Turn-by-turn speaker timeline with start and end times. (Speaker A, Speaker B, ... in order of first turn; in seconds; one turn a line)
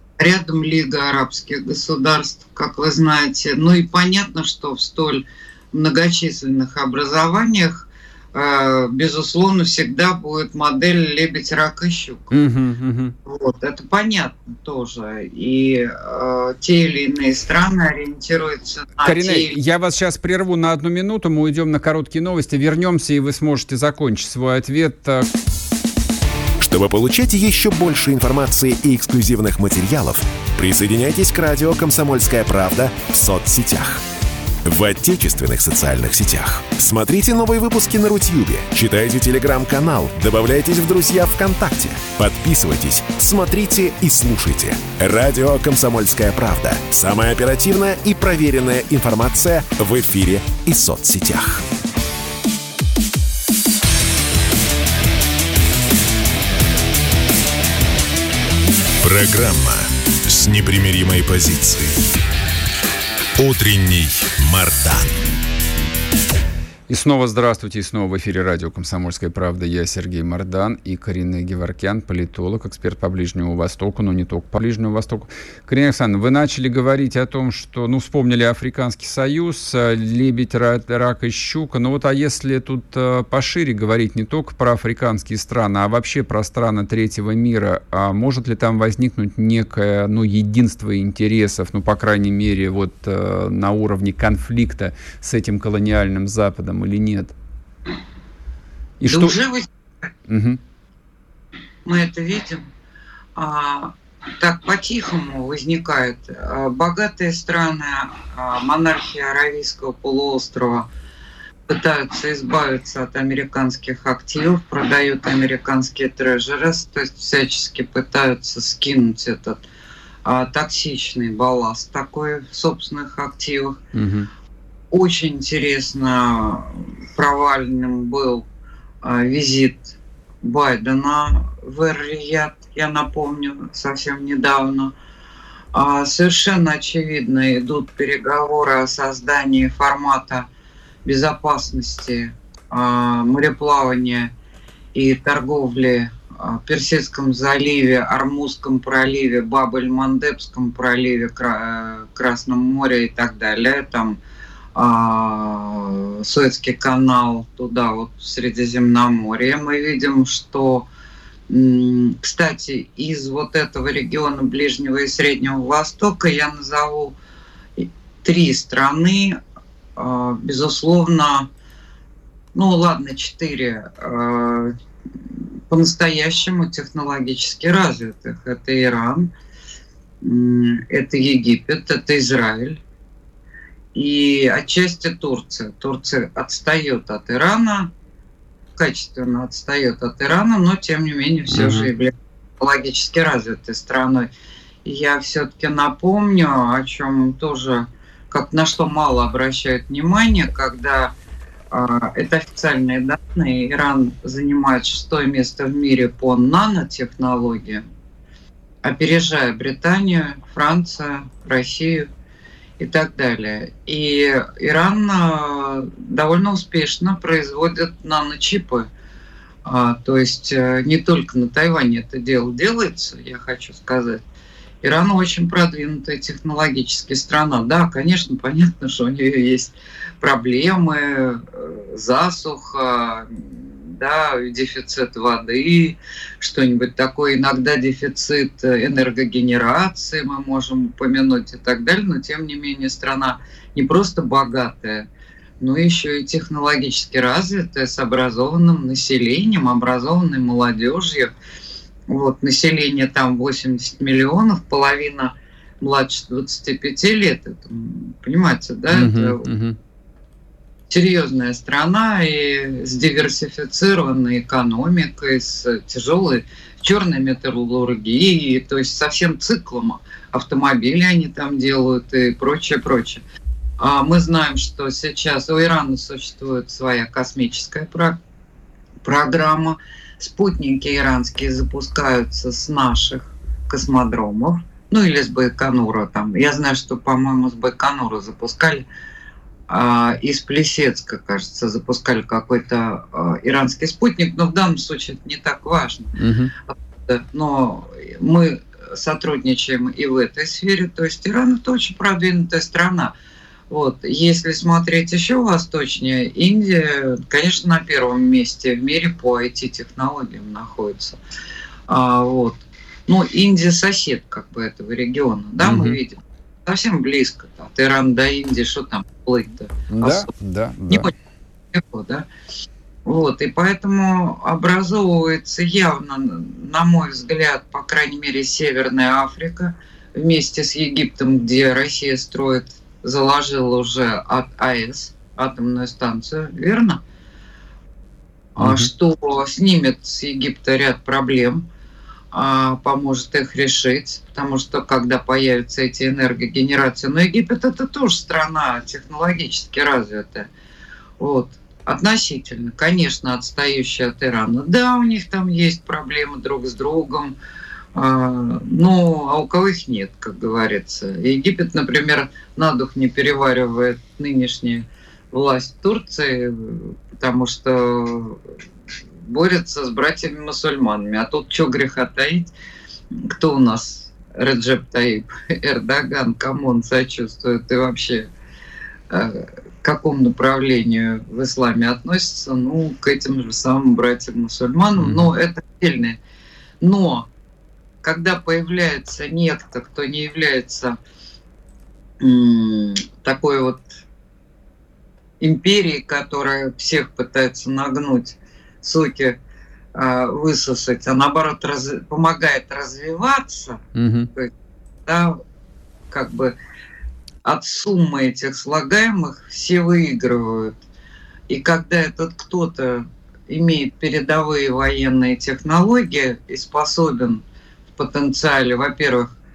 Speaker A: 0.2-12.3
Speaker B: 12.3-13.1
Speaker A: 13.2-19.6
Speaker B: 19.0-25.3
Speaker C: 26.6-34.0
Speaker C: 34.6-51.6
Speaker C: 59.0-62.0
Speaker C: 63.4-65.2
Speaker B: 66.9-97.3
Speaker B: 99.0-99.4
Speaker A: 99.0-99.7
Speaker B: 100.3-100.6
Speaker A: 101.8-102.6
Speaker A: 103.4-110.9
Speaker A: 111.7-119.6
Speaker A: 120.2-123.8
Speaker B: 123.9-124.3
Speaker A: 124.9-128.4
Speaker A: 129.0-134.9
Speaker A: 135.7-140.5
Speaker A: 141.1-144.3
Speaker A: 144.9-154.2
Speaker A: 154.7-160.9
Speaker A: 161.5-167.2
Speaker A: 167.8-169.4
Speaker A: 169.9-171.5
Speaker A: 172.5-174.7
Speaker A: 175.3-179.3
Speaker A: 180.2-182.8
Speaker A: 183.9-187.9
Speaker A: 188.8-194.3
Speaker B: 191.5-191.9
Speaker A: 194.8-201.2
Speaker A: 201.7-207.8
Speaker A: 208.8-212.1
Speaker A: 212.8-218.9
Speaker A: 219.6-224.2
Speaker A: 224.8-245.1
Speaker A: 245.6-251.3
Speaker A: 252.1-259.4
Speaker B: 258.9-259.8
Speaker A: 260.9-273.2
Speaker A: 273.8-278.2
Speaker A: 279.0-288.9
Speaker A: 289.7-296.1
Speaker B: 296.2-296.5
Speaker A: 296.7-303.1
Speaker A: 303.7-311.2
Speaker A: 311.9-320.3
Speaker B: 315.6-316.0
Speaker B: 319.9-321.1
Speaker A: 321.7-322.3
Speaker A: 323.1-337.0
Speaker A: 338.6-341.7
Speaker B: 338.6-338.9
Speaker A: 342.3-350.5
Speaker A: 351.2-357.4
Speaker A: 357.9-368.4
Speaker A: 369.2-372.5
Speaker A: 373.1-378.3
Speaker A: 379.1-386.2
Speaker B: 385.0-385.3
Speaker A: 386.8-387.3
Speaker A: 388.0-391.0
Speaker A: 392.2-393.9
Speaker A: 395.4-399.4
Speaker A: 399.9-403.8
Speaker B: 403.9-404.3
Speaker A: 405.1-405.4
Speaker A: 406.1-406.5
Speaker A: 407.4-410.8
Speaker A: 411.5-417.4
Speaker A: 417.9-419.3